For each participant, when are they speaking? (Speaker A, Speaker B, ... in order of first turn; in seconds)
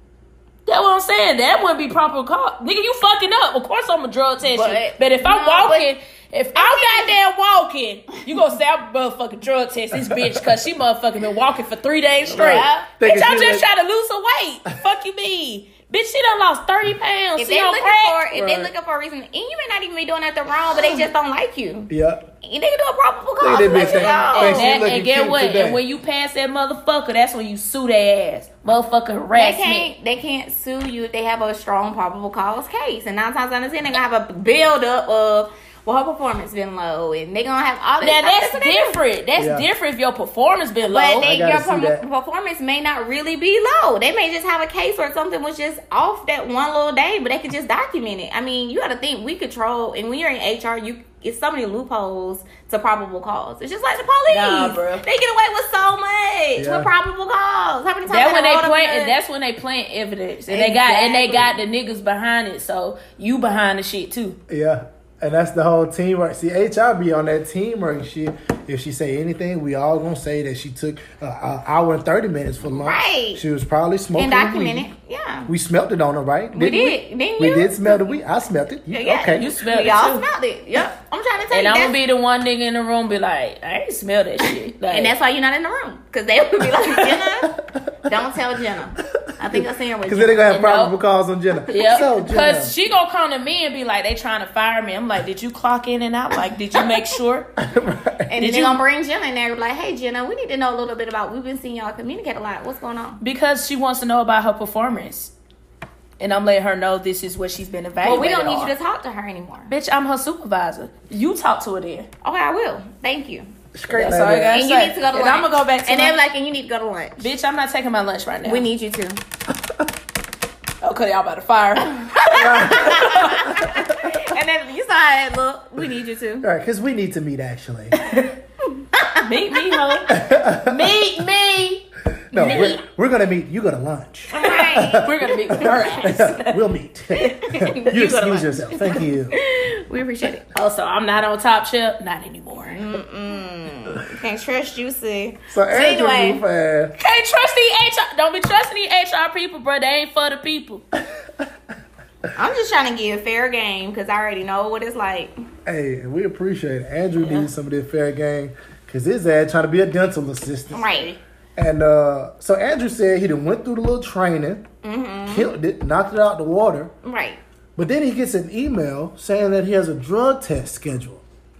Speaker A: 0.7-18.7, 20.7-21.1, 23.7-29.9, 38.0-41.3, 54.3-55.0, 58.1-64.4, 79.3-80.2, 81.5-85.1, 86.9-87.2, 90.5-90.9, 91.7-97.5, 98.4-98.8, 103.2-105.3, 106.2-108.7, 109.7-112.1, 113.9-116.2, 117.2-118.7, 120.8-123.9, 128.0-128.3, 129.2-132.8, 135.0-136.6, 140.5-142.8, 147.0-150.8, 160.8-161.2
Speaker B: 4.4-5.9, 6.5-7.2, 12.4-12.7, 17.4-21.9, 22.4-24.8, 29.3-39.0, 40.9-59.1, 60.5-61.5, 72.7-73.4, 74.2-75.5, 76.5-78.1, 78.9-82.0, 84.9-87.5, 88.0-90.5, 98.3-103.2, 108.0-109.7, 112.2-117.3, 118.4-119.2, 121.9-126.5, 128.9-130.0, 132.3-132.8, 134.3-135.1, 137.2-140.4, 142.6-146.4, 152.3-155.3, 157.2-157.5, 160.7-161.1, 164.8-165.5, 167.0-167.4
Speaker C: 12.3-13.6, 21.9-22.2, 23.4-25.8, 39.4-39.6, 41.2-42.0, 56.6-56.9, 64.5-74.9, 75.5-79.4, 89.5-92.7, 97.6-98.3, 113.7-114.6, 122.4-123.5, 126.4-128.0, 130.1-130.9, 132.3-139.4, 145.5-146.9, 155.6-160.8, 161.6-164.6, 165.3-166.9, 167.8-171.2